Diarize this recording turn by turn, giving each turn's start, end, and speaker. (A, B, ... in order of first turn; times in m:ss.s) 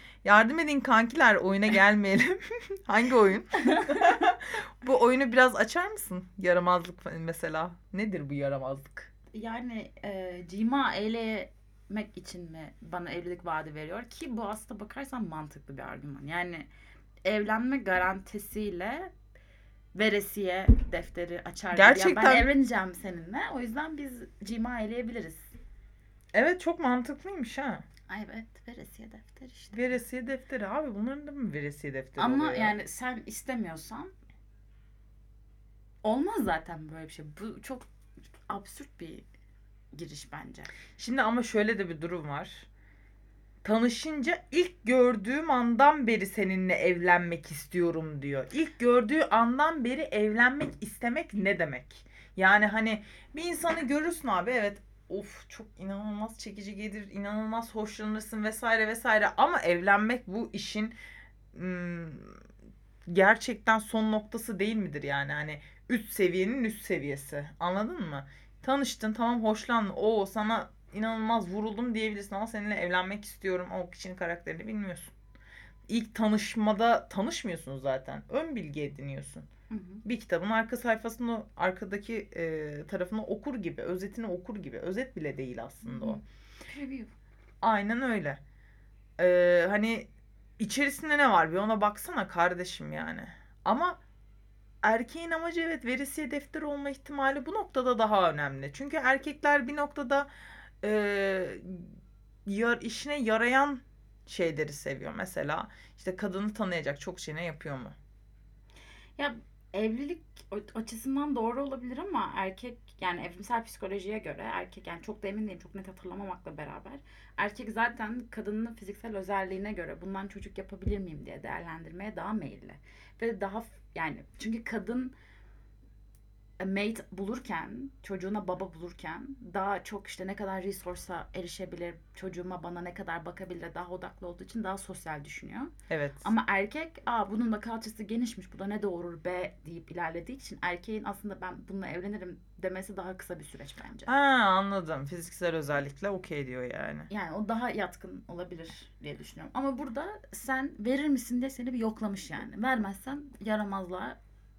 0:00.2-0:09.1 A
0:09.3-0:16.7 B
0:17.2-0:19.1 B
0:19.9-0:25.5 B
0:21.7-0:22.5 A
0:26.3-0:27.8 A
0:28.1-0:30.0 B
0:29.7-0:32.7 A
0:32.2-0:34.1 B
0:36.0-0:37.9 B
0:38.5-0:39.3 B
0:39.9-0:40.8 B
0:41.0-0:42.7 A
0:43.6-1:01.0 A
1:01.5-1:02.4 A
1:03.1-1:15.1 A
1:15.9-1:19.5 A
1:19.7-1:20.0 B
1:20.0-1:26.2 A
1:25.8-1:27.1 B
1:27.6-1:28.4 A
1:29.2-1:34.0 A
1:34.8-1:40.3 A
1:40.8-1:42.0 A
1:42.5-1:48.0 A
1:49.2-2:05.2 B
2:06.6-2:24.1 B
2:15.9-2:16.3 A
2:24.1-2:27.1 A
2:27.1-2:34.2 B